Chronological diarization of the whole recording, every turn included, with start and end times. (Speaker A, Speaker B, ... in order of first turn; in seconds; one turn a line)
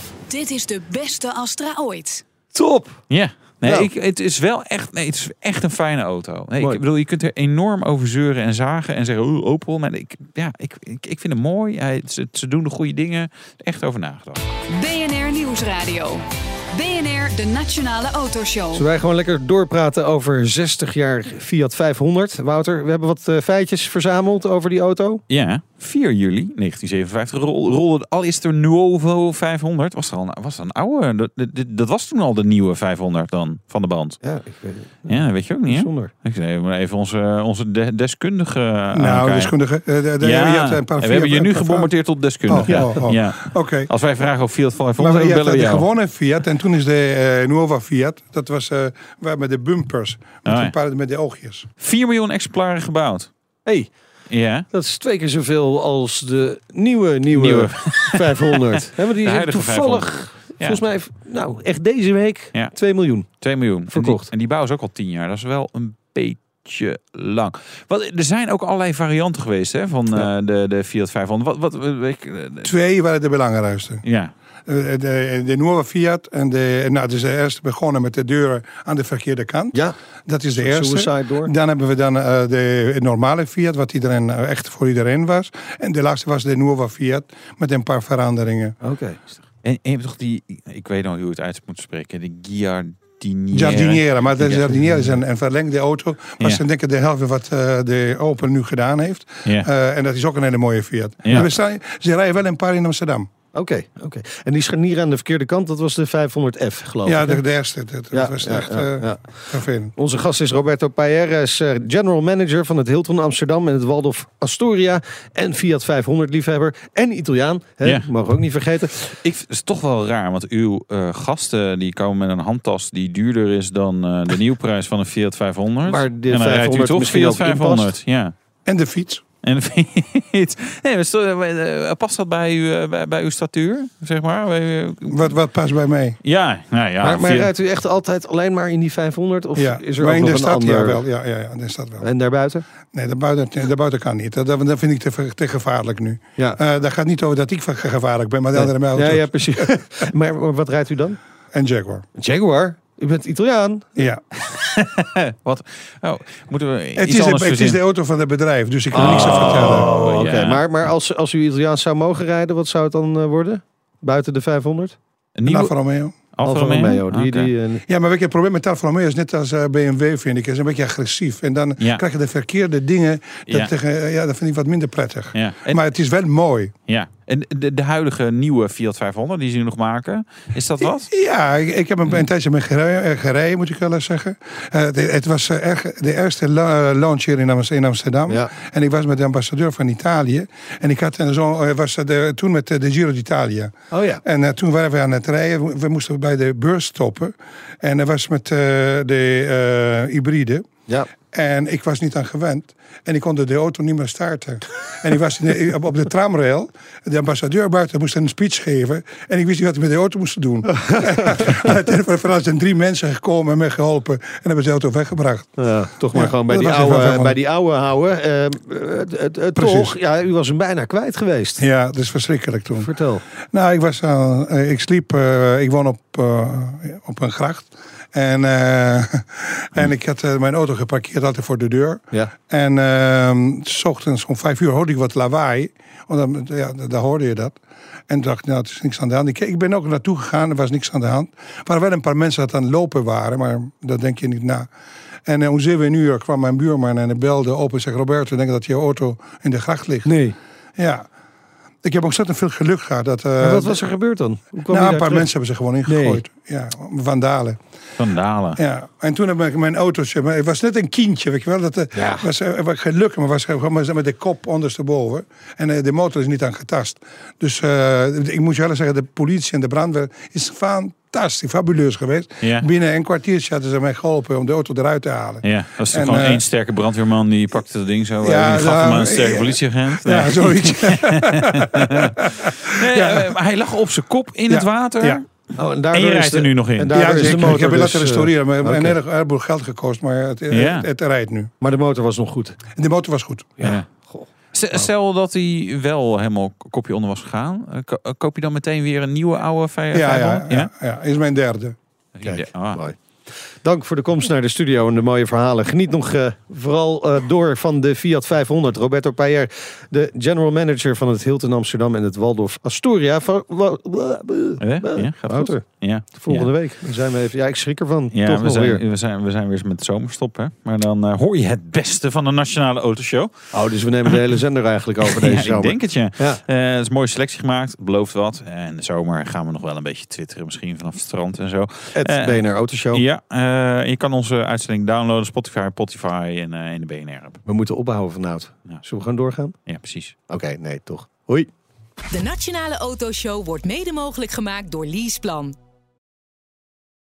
Speaker A: 0.3-2.2
Speaker B: 2.5-3.1
Speaker C: 3.1-14.4
Speaker B: 3.6-3.9
Speaker B: 6.6-6.8
Speaker A: 14.7-18.9
Speaker B: 18.7-25.2
Speaker C: 25.3-34.2
Speaker B: 34.2-36.1
Speaker C: 35.1-39.5
Speaker D: 38.9-43.9
Speaker C: 40.2-45.9
Speaker D: 45.0-51.7
Speaker C: 50.5-50.8
Speaker C: 51.8-53.3
Speaker B: 53.6-53.9
Speaker C: 54.3-54.6
Speaker B: 54.7-63.3
Speaker C: 57.3-58.6
Speaker C: 59.2-60.8
Speaker C: 63.4-72.7
Speaker B: 63.9-64.3
Speaker D: 72.6-74.0
Speaker C: 74.0-74.3
Speaker D: 74.7-88.8
Speaker B: 80.5-81.5
Speaker B: 88.8-89.2
Speaker C: 89.6-94.9
Speaker D: 93.5-103.3
Speaker B: 103.5-107.4
Speaker D: 107.0-109.9
Speaker B: 108.1-109.3
Speaker B: 110.0-118.9
Speaker C: 117.8-118.1
Speaker C: 119.0-128.3
Speaker B: 125.9-127.9
Speaker D: 128.7-129.2
Speaker C: 129.4-135.4
Speaker D: 135.1-136.2
Speaker C: 136.2-137.5
Speaker B: 137.0-141.0
Speaker D: 139.6-142.1
Speaker B: 142.0-142.7
Speaker D: 142.9-150.1
Speaker B: 148.5-151.2
Speaker D: 151.5-152.1
Speaker B: 152.2-153.9
Speaker D: 154.0-154.2
Speaker C: 154.4-157.8
Speaker D: 157.0-159.9
Speaker B: 158.9-165.0
Speaker C: 158.9-160.6
Speaker C: 165.4-165.7
Speaker D: 165.4-166.3
Speaker C: 166.3-167.5
Speaker B: 166.4-167.8
Speaker D: 167.9-176.7
Speaker C: 171.8-172.1
Speaker C: 173.5-173.7
Speaker C: 175.3-175.8
Speaker C: 176.9-181.1
Speaker D: 180.8-193.7
Speaker B: 193.9-194.2
Speaker D: 194.2-200.7
Speaker D: 201.3-215.6
Speaker B: 210.7-211.7
Speaker B: 215.6-221.6
Speaker D: 216.1-217.4
Speaker D: 219.6-219.9
Speaker D: 221.6-222.9
Speaker B: 222.8-223.2
Speaker D: 223.5-237.6
Speaker D: 238.1-244.7
Speaker D: 245.3-250.1
Speaker B: 250.1-250.4
Speaker D: 250.8-251.1
Speaker D: 251.8-253.8
Speaker B: 253.4-255.3
Speaker D: 254.7-257.6
Speaker B: 255.9-256.2
Speaker C: 258.0-258.6
Speaker D: 258.6-276.4
Speaker B: 261.9-262.3
Speaker C: 272.4-272.7
Speaker C: 275.4-285.3
Speaker D: 278.2-283.4
Speaker D: 284.5-285.2
Speaker B: 285.6-289.0
Speaker C: 285.9-287.8
Speaker D: 286.9-291.5
Speaker C: 290.5-290.9
Speaker B: 291.6-292.6
Speaker D: 292.7-293.6
Speaker B: 293.6-294.9
Speaker C: 294.5-300.7
Speaker D: 299.9-301.8
Speaker C: 302.1-302.8
Speaker B: 302.2-303.0
Speaker B: 303.6-318.8
Speaker C: 314.6-316.5
Speaker C: 318.1-323.3
Speaker B: 323.5-326.4
Speaker C: 325.1-337.4
Speaker B: 331.9-333.0
Speaker B: 337.5-339.6
Speaker C: 339.7-340.1
Speaker B: 340.3-341.5
Speaker E: 342.1-345.6